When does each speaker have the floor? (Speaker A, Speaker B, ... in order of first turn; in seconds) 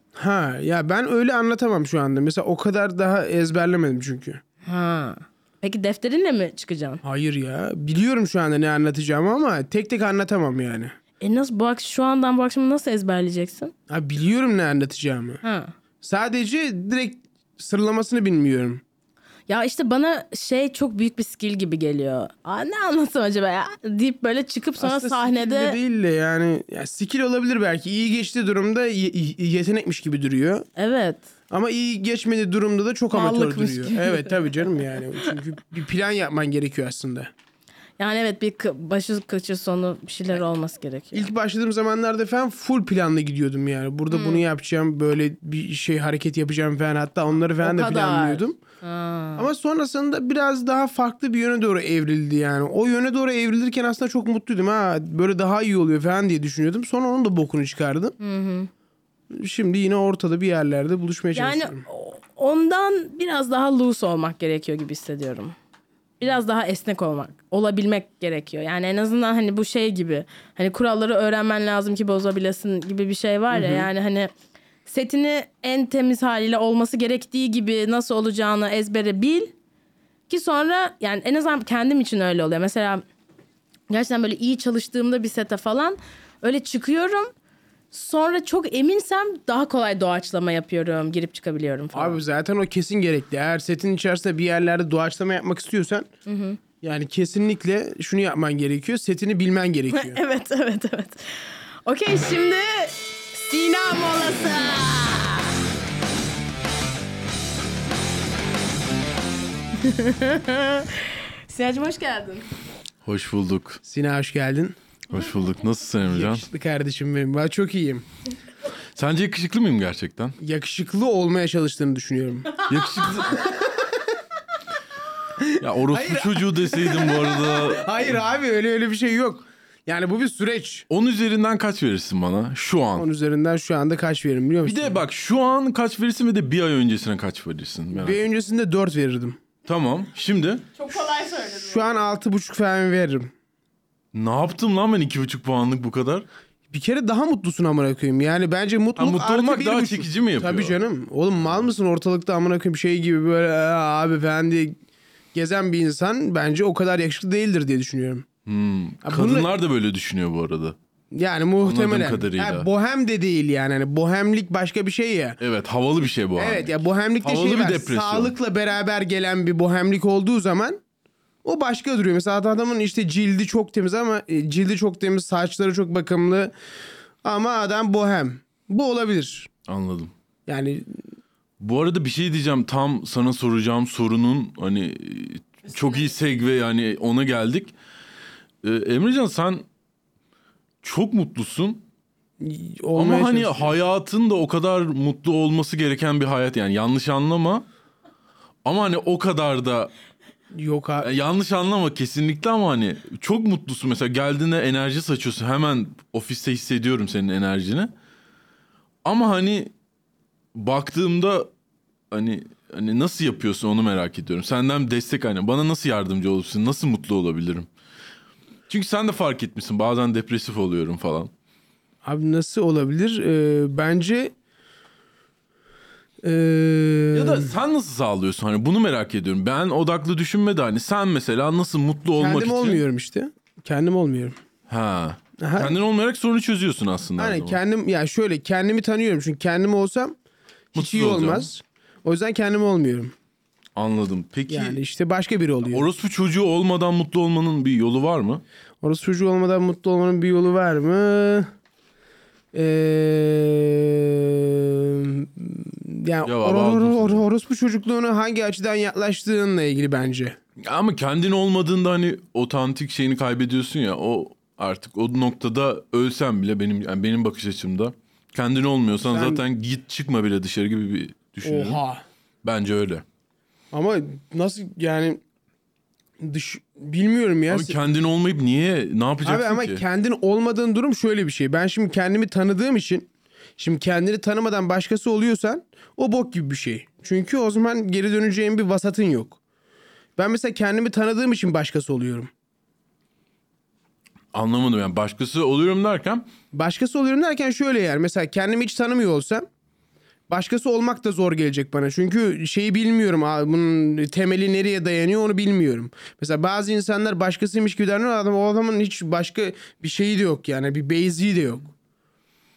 Speaker A: 0.2-4.4, 7.0-10.9, 13.9-15.4, 16.0-18.8, 24.8-30.7, 31.5-37.3, 41.1-48.6, 49.4-58.1, 59.3-61.8, 73.5-73.9, 91.9-96.1, 96.8-100.2, 113.8-114.8, 116.1-118.0, 120.4-122.6, 123.2-124.0, 125.4-130.9, 132.9-135.0, 137.9-139.4, 141.6-143.3, 146.7-154.8, 155.3-158.3, 159.0-159.5, 161.1-165.4, 166.4-170.8, 171.4-176.5, 177.2-179.5, 180.5-181.0, 192.4-193.8, 200.5-201.1, 222.0-224.3, 226.2-227.5, 232.2-234.4, 235.4-235.7, 237.2-240.2, 240.7-243.2, 244.5-245.9, 248.8-251.5, 252.5-260.4, 269.0-269.4, 271.4-272.0, 273.7-275.2, 276.2-277.8, 279.2-289.4, 290.2-292.3, 296.5-299.4, 300.3-311.7
Speaker B: 4.7-7.0, 11.2-13.7, 15.4-15.7, 19.5-25.8, 30.8-31.2, 33.1-34.7, 38.0-41.3, 44.1-44.4, 47.6-49.5, 58.2-58.7, 61.4-65.5, 66.2-74.3, 74.9-79.5, 80.3-83.0, 83.9-87.3, 87.9-92.2, 96.3-96.6, 99.9-105.5, 109.8-112.5, 140.8-141.9
Speaker C: 113.0-113.8, 115.1-116.4, 119.0-120.4, 122.6-123.5, 125.5-128.2, 130.9-133.1, 134.7-138.2, 139.7-140.7, 144.1-146.2, 149.0-150.8, 158.5-160.8, 161.6-162.7, 165.4-168.3, 179.7-180.1, 181.6-187.7, 188.6-189.7, 190.8-191.8, 193.0-197.7, 198.7-199.9, 201.0-207.9, 209.1-209.7, 210.5-211.5, 212.1-217.7, 218.7-221.3, 227.1-232.8, 234.7-237.6, 240.8-241.5, 243.8-244.8, 245.7-248.4, 256.2-257.2, 260.6-271.8, 272.4-273.0, 277.5-279.8, 294.3-296.2